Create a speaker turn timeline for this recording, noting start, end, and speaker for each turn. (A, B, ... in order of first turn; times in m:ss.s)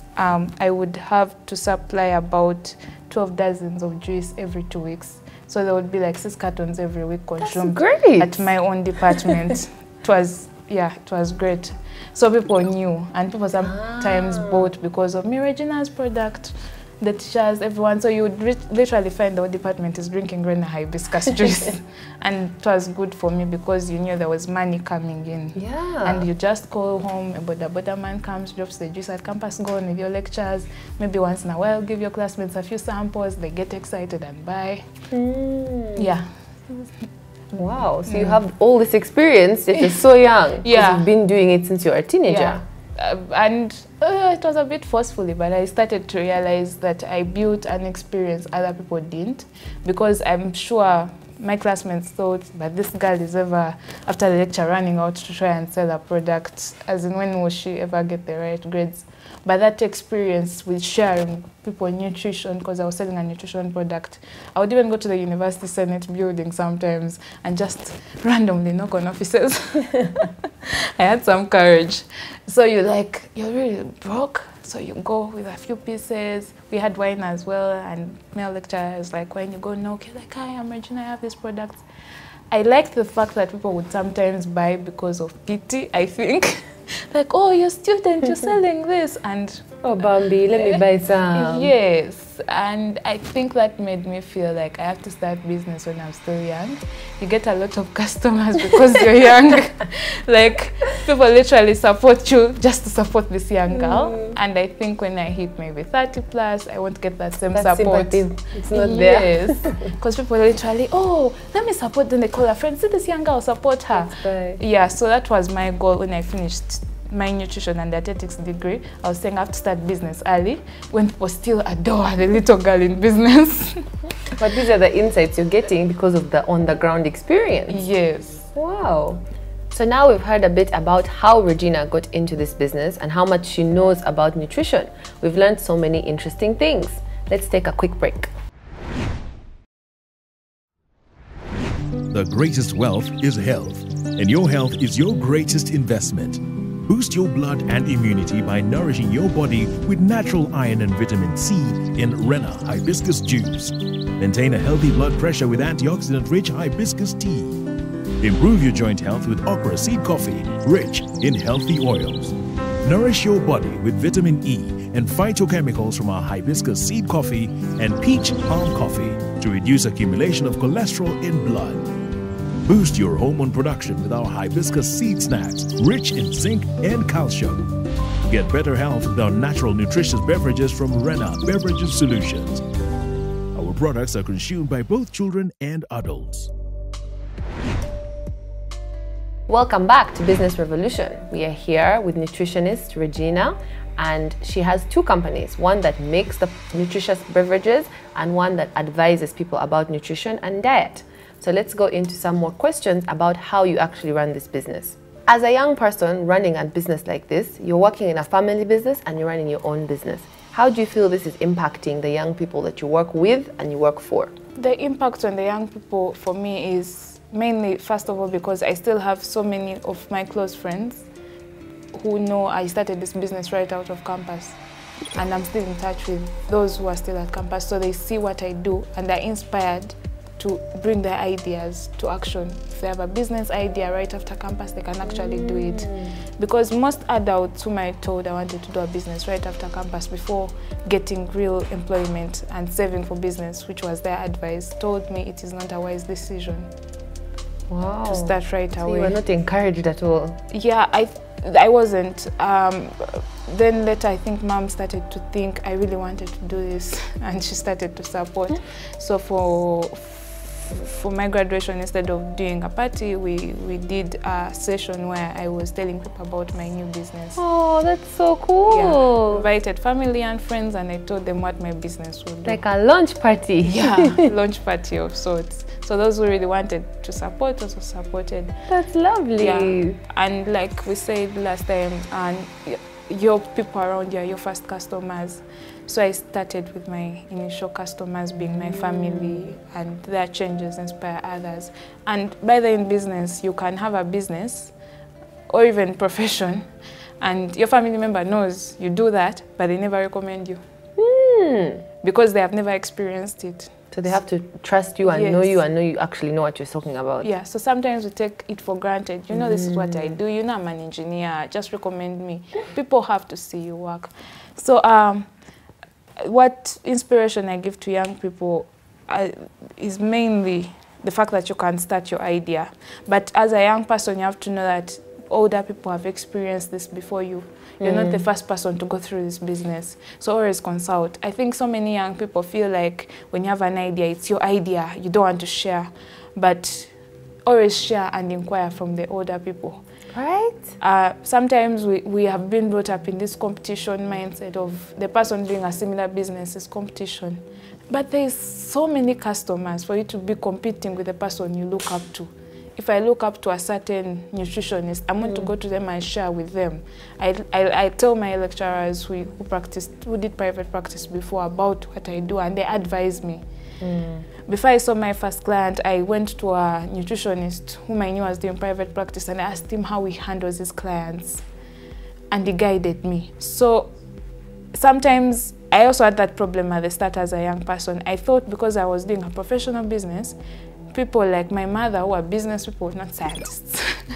0:00.2-0:34.9 A
0:07.4-0:08.5 B
0:13.6-0:14.7 B
0:25.5-0:26.2 B
0:35.1-0:36.1 B
0:36.0-0:36.8 A
0:37.5-0:38.4 A
0:37.6-0:42.6 B
0:40.6-0:41.1 A
0:42.3-1:21.8 A
1:22.5-1:30.8 A
1:29.8-1:31.7 B
1:31.3-2:03.9 A
1:43.7-1:44.3 B
1:47.5-1:49.8 B
1:53.9-1:54.6 B
2:04.4-2:07.8 B
2:07.7-2:08.5 A
2:08.5-2:18.3 B
2:22.1-2:37.6 C
2:38.2-2:51.8 C
2:52.6-2:57.6 C
2:58.2-3:02.6 C
3:03.5-3:06.5 C
3:09.5-3:34.3 B
3:34.6-3:41.1 A
3:41.9-3:44.6 A
3:45.1-4:06.7 A
3:55.0-3:56.2 B
4:07.7-4:10.4 B
4:08.1-4:09.2 A
4:10.5-4:27.4 A
4:27.4-4:29.4 B
4:28.7-4:32.6 A
4:32.4-4:34.3 B
4:33.6-4:38.6 A
4:38.7-4:40.0 B
4:39.4-4:54.7 A
4:48.5-4:49.4 B
4:55.5-4:56.6 A
4:57.2-5:00.6 A
5:01.0-5:01.8 B
5:02.0-5:03.7 A
5:03.9-5:07.3 B
5:05.0-5:05.6 A
5:07.2-5:15.3 A
5:09.3-5:10.2 B
5:16.2-5:36.9 A
5:27.8-5:28.2 B
5:37.4-5:39.8 A
5:40.1-5:40.7 B
5:40.8-6:03.4 A
5:55.2-5:55.5 B
6:03.8-6:04.2 B
6:04.5-6:11.4 A
6:12.3-6:13.9 A
6:14.7-6:20.4 A
6:20.9-6:23.9 A